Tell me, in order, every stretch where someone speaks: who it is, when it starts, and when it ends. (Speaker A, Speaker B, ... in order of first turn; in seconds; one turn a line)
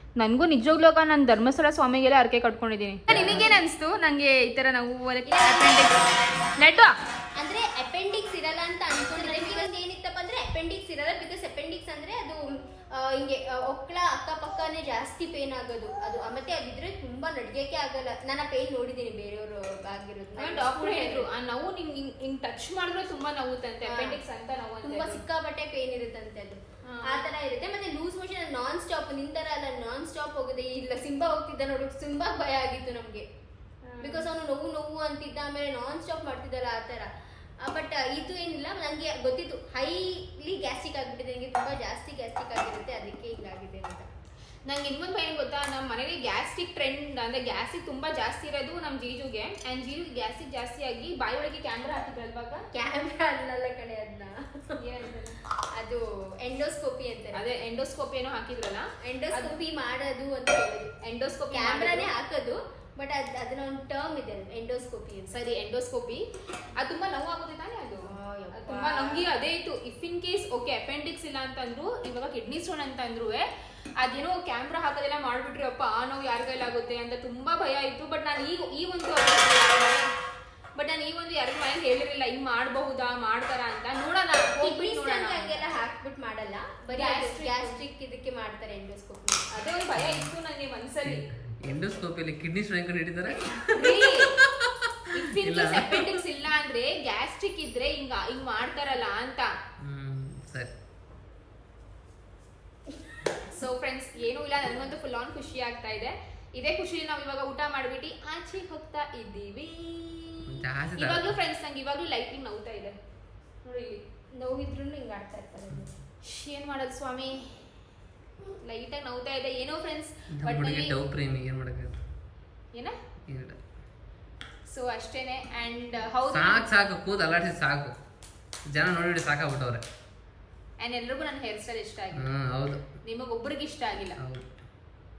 Speaker A: 0.2-6.0
Speaker B: 3.1-3.5
Speaker B: 5.3-6.1
Speaker A: 6.6-6.9
Speaker B: 7.4-21.3
Speaker A: 9.2-9.7
Speaker A: 20.4-25.2
Speaker B: 23.8-24.2
Speaker B: 24.8-33.3
Speaker A: 26.8-27.3
Speaker A: 33.9-34.3
Speaker B: 34.0-37.1
Speaker B: 37.6-44.1
Speaker A: 44.6-52.6
Speaker B: 52.7-54.8
Speaker A: 54.8-55.4
Speaker B: 55.7-57.4
Speaker A: 57.3-59.5
Speaker B: 59.0-60.9
Speaker A: 61.0-62.1
Speaker B: 61.5-65.4
Speaker A: 65.3-66.2
Speaker A: 66.8-73.5
Speaker B: 68.0-69.3
Speaker A: 74.0-80.0
Speaker A: 80.8-85.8
Speaker B: 84.6-89.5
Speaker A: 86.9-87.7
Speaker A: 89.5-91.2
Speaker C: 90.0-90.3
Speaker C: 91.0-96.2
Speaker A: 93.7-94.4
Speaker A: 95.1-99.5
Speaker C: 99.8-100.7
Speaker A: 103.4-113.0
Speaker C: 110.4-111.3
Speaker A: 113.6-114.2
Speaker B: 114.4-115.8
Speaker A: 116.2-117.6
Speaker A: 118.6-120.9
Speaker C: 120.3-122.0
Speaker C: 123.3-123.6
Speaker A: 124.7-126.8
Speaker C: 126.3-128.0
Speaker C: 128.7-129.8
Speaker A: 130.8-132.3
Speaker C: 132.1-132.8
Speaker A: 133.0-134.2
Speaker C: 134.2-134.6